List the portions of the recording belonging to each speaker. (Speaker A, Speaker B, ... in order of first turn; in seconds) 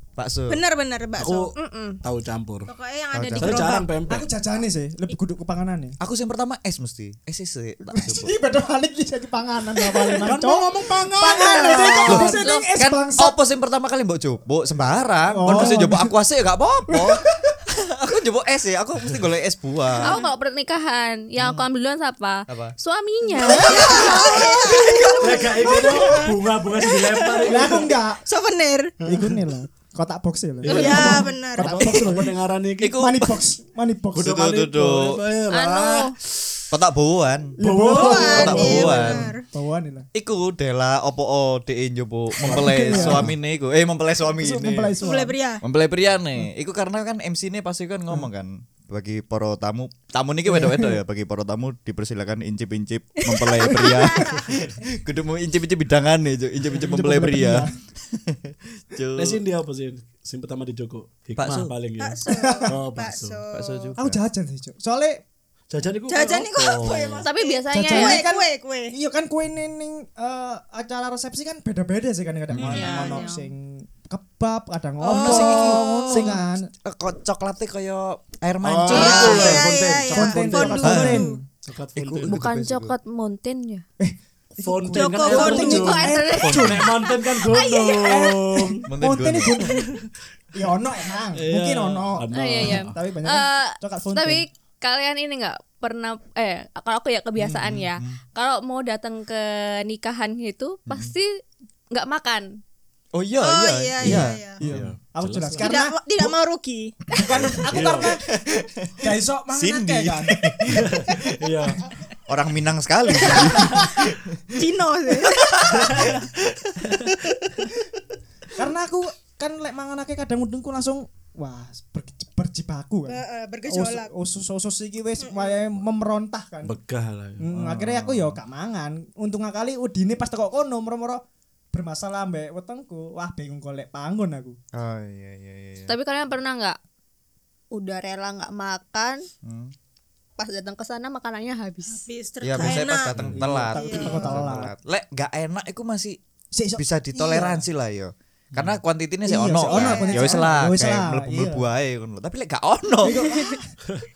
Speaker A: 0.2-0.6, 3.1-3.7, 6.0-8.3, 12.1-20.2, 22.5-22.7, 23.8-25.7, 32.8-33.3, 34.2-35.1, 36.7-37.6, 38.3-39.3, 40.1-45.0, 45.6-59.4, 61.4-61.7, 63.5-64.2, 72.5-72.9, 75.0-79.7, 80.7-81.3, 82.0-82.9, 86.4-86.8, 88.9-89.7, 97.5-98.2, 100.9-101.1, 103.1-104.9, 107.2-109.0, 109.5-111.3, 112.3-114.5, 115.2-117.6, 127.5-128.4, 134.7-135.9, 139.4-139.7, 142.4-146.2, 146.8-153.2
Speaker B: 0.5-1.5, 2.7-3.8, 23.4-29.0, 30.6-32.1, 37.9-39.4, 45.0-45.6, 53.6-54.5, 62.0-63.9, 66.1-68.9, 72.9-73.2, 75.0-76.4, 78.9-81.3, 84.9-86.0, 103.4-104.6, 105.6-107.0, 114.5-115.5, 123.1-124.1, 125.2-125.6, 141.9-143.2, 143.7-144.3, 149.7-150.5
Speaker C: 1.2-2.7, 3.4-4.3, 10.1-12.4, 25.2-27.9, 29.0-29.5, 30.6-33.0, 34.1-36.7, 37.6-39.2, 42.4-43.3, 59.1-63.4, 65.7-67.2, 72.6-72.9, 78.6-81.0, 81.6-82.4, 84.6-88.9, 91.3-93.0, 104.0-105.8, 107.7-108.1, 110.7-111.8, 115.7-116.2, 126.6-127.4, 142.6-143.6
Speaker D: 1.6-2.0, 12.2-12.7, 20.0-24.5, 35.5-36.1, 67.2-68.3, 72.6-73.5, 82.2-83.8, 85.3-88.2, 92.3-101.4, 101.9-102.6, 135.9-136.8, 137.7-139.2, 140.4-142.0
Speaker E: 3.5-6.0, 7.8-13.3, 15.3-16.1, 16.9-17.5, 23.4-24.2, 25.6-26.3, 27.4-28.2, 29.1-32.3, 32.9-34.5, 37.6-40.1, 42.4-43.3, 44.4-45.4, 50.5-51.0, 56.7-57.7, 62.3-62.6, 64.0-65.2, 67.7-76.7, 79.0-79.4, 80.1-81.4, 84.0-87.1, 88.0-89.9, 90.5-94.5, 104.0-105.9, 107.1-108.2, 109.0-110.9, 118.5-126.8, 127.4-131.2, 131.7-134.6, 143.3-144.7, 146.5-147.6, 149.2-151.6, 153.0-153.7